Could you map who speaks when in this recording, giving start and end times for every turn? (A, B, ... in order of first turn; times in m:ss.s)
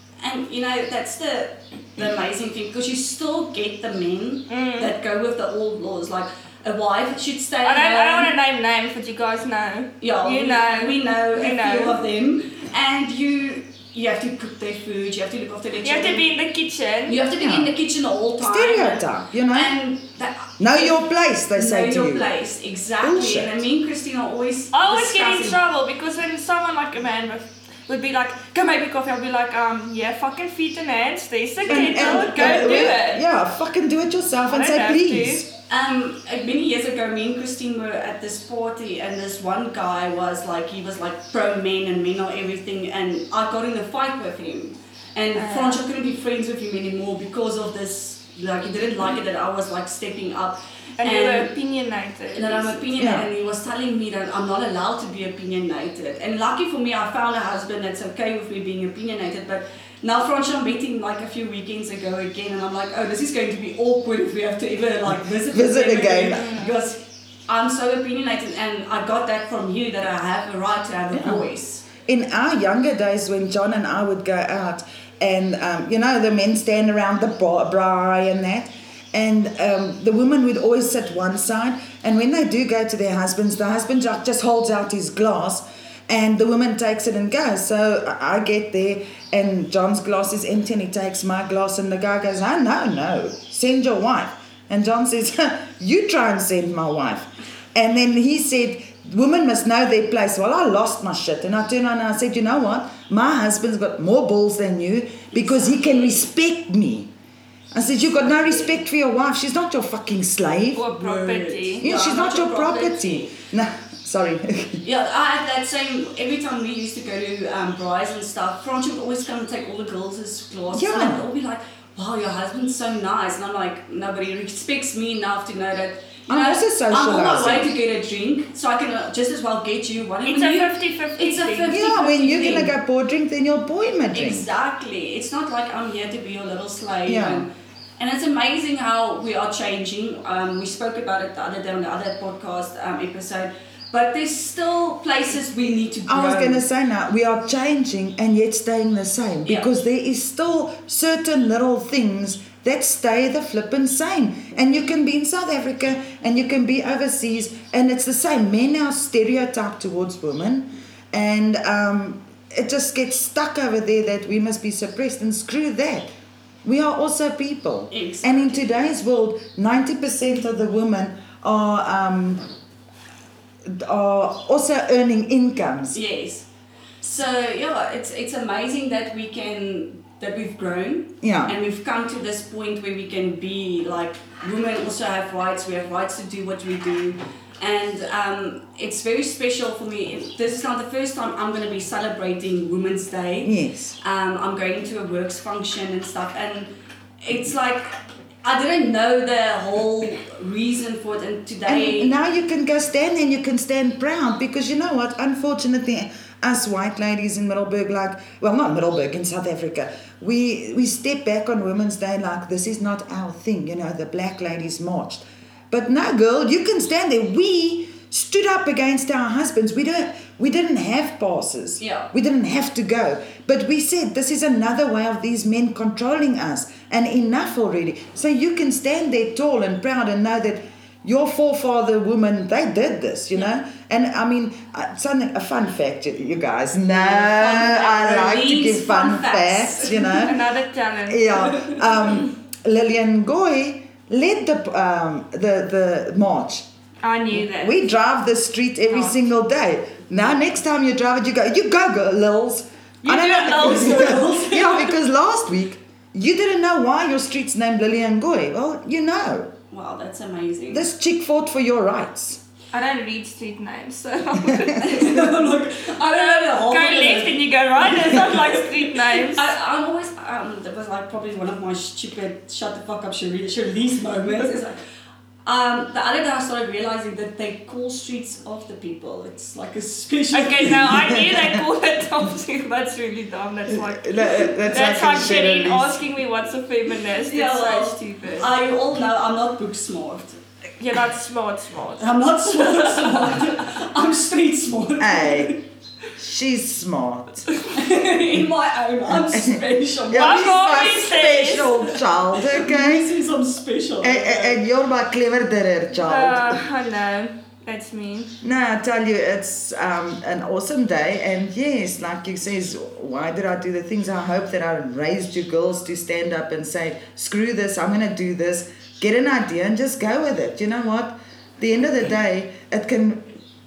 0:00.2-0:08.3 A
0:04.5-0:04.9 B
0:07.6-0:12.0 B
0:10.0-0:16.3 A
0:15.8-0:17.2 B
0:17.1-0:21.0 A
0:17.4-0:17.7 C
0:18.4-0:19.8 C
0:20.6-0:22.3 C
0:21.5-0:25.6 A
0:23.0-0:23.6 C
0:24.7-0:33.2 B
0:31.6-0:33.0 A
0:31.7-0:35.5 C
0:34.5-0:35.4 B
0:35.7-0:51.5 A
0:45.4-0:45.8 B
0:51.0-0:52.9 B
0:52.3-1:11.9 A
0:53.0-0:53.3 C
1:05.4-1:06.5 C
1:06.3-1:06.7 B
1:11.1-1:11.4 C
1:12.0-1:47.1 C
1:45.3-1:46.2 A
1:47.7-1:50.8 C
1:48.2-1:48.8 A
1:50.8-1:51.9 B
1:50.9-1:53.3 A
1:51.8-1:54.8 C
1:54.8-2:12.7 A
2:00.7-2:01.2 C
2:06.3-2:07.7 C
2:10.3-2:11.7 B
2:11.7-2:14.5 C
2:14.1-2:26.6 A
2:17.1-2:17.5 C
2:26.1-2:46.1 C
2:46.6-2:52.4 C
2:47.9-2:48.7 A
2:53.6-2:56.0 C
2:55.9-2:56.5 A
2:57.0-3:16.7 A
3:01.2-3:01.5 C
3:13.4-3:14.0 C
3:17.2-3:17.9 A
3:18.4-3:22.2 A
3:21.7-4:00.4 C
3:41.8-3:42.1 A
3:56.9-4:00.2 A
4:00.1-4:01.5 B
4:01.1-4:06.7 C
4:07.0-4:07.8 B
4:07.3-4:19.5 C
4:08.9-4:09.2 B
4:13.0-4:14.3 B
4:13.5-4:14.9 A
4:19.7-4:20.9 A
4:20.7-4:22.4 C
4:22.7-4:25.1 B
4:24.4-4:25.1 C
4:24.8-4:34.8 A
4:26.1-4:29.5 B
4:35.4-4:41.1 A
4:40.3-4:48.5 B
4:41.1-4:41.6 C
4:43.7-4:46.0 C
4:47.2-4:50.4 A
4:50.8-4:53.3 B
4:52.0-4:55.6 A
4:55.0-4:55.6 C
4:56.2-4:57.5 C
4:57.7-5:00.6 A
4:59.3-5:03.1 C
5:00.2-5:01.8 B
5:02.4-5:04.6 A
5:04.0-5:06.6 C
5:06.1-5:08.4 B
5:08.4-5:23.2 C